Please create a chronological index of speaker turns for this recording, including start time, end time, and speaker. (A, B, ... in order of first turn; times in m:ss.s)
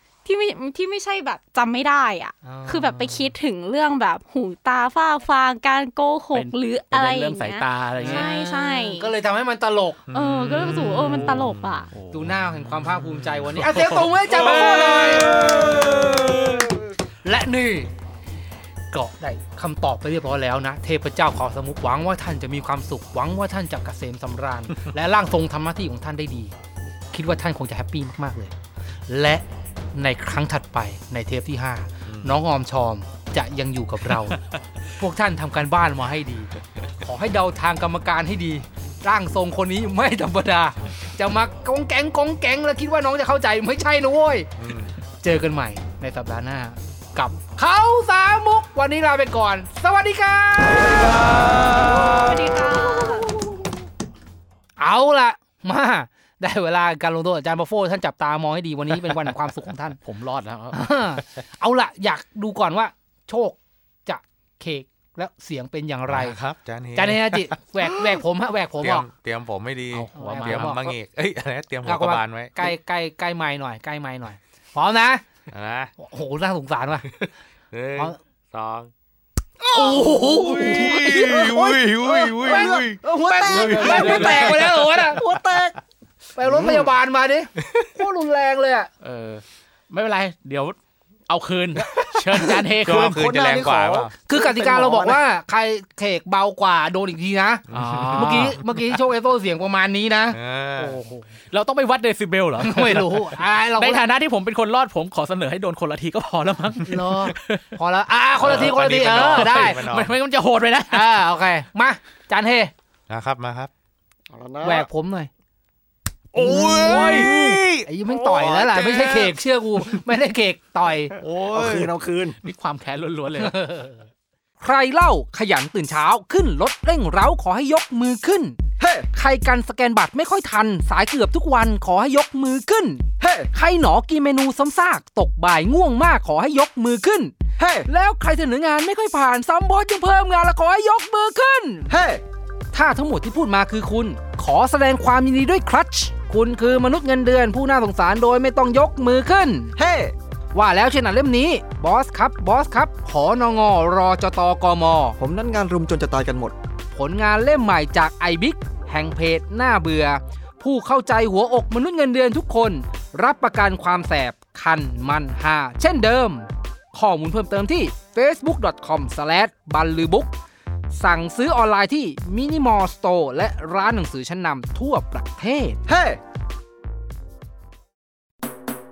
0:00.2-0:09.1 A
0:02.4-0:03.3 B
0:06.3-0:08.3 C
0:08.0-0:10.1 B
0:10.1-0:11.9 D
0:10.1-0:11.9 A
0:11.1-0:11.4 B
0:11.9-0:12.5 C
0:12.1-0:16.1 B
0:13.1-0:13.4 D
0:13.5-0:14.1 C
0:14.4-0:16.6 D
0:17.2-0:17.9 B
0:18.9-0:26.5 B
0:27.1-0:28.5 B
0:29.1-0:34.4 B
0:32.0-0:32.4 D
0:35.0-0:44.5 B
0:44.6-0:44.9 D
0:45.2-0:52.8 B
0:51.3-0:52.1 D
0:51.9-0:53.3 A
0:54.8-1:00.0 B
1:00.0-1:00.8 C
1:00.7-1:06.4 B
1:06.1-1:08.2 D
1:06.9-1:09.1 B
1:08.8-1:12.7 D
1:09.9-1:10.8 C
1:10.1-1:10.9 B
1:11.8-1:15.2 B
1:15.5-1:15.9 D
1:16.0-1:17.1 B
1:17.7-1:18.9 D
1:19.6-1:25.8 E
1:19.7-1:21.5 B
1:20.3-1:24.6 D
1:22.4-1:25.2 B
1:23.7-1:24.5 C
1:26.3-1:28.9 B
1:26.4-1:26.9 E
1:29.0-1:30.8 C
1:31.3-1:33.2 C
1:32.8-1:34.1 D
1:33.1-1:35.2 E
1:34.3-1:41.2 B
1:37.7-1:38.6 D
1:37.7-1:38.5 C
1:40.3-1:41.0 D
1:41.5-1:47.6 C
1:42.6-1:44.0 B
1:46.8-1:49.8 B
1:48.4-1:50.1 D
1:48.4-1:51.1 C
1:50.9-1:52.7 B
1:53.1-1:53.7 D
1:54.3-1:54.9 E
1:54.6-1:55.3 B
1:56.3-1:59.3 D
1:56.4-2:01.1 B
1:56.6-1:57.3 C
2:01.2-2:01.9 D
2:01.5-2:02.4 E
2:02.4-2:03.6 C
2:03.4-2:03.9 B
2:04.6-2:08.6 B
2:08.8-2:09.1 E
2:09.1-2:17.3 B
2:13.2-2:13.5 E
2:17.6-2:17.9 E
2:17.8-2:21.9 B
2:21.9-2:22.2 E
2:22.7-2:29.7 B
2:29.8-2:30.1 E
2:30.5-2:35.2 B
2:35.2-2:36.5 E
2:36.9-2:50.3 B
2:50.9-2:55.8 B
2:55.9-2:56.2 E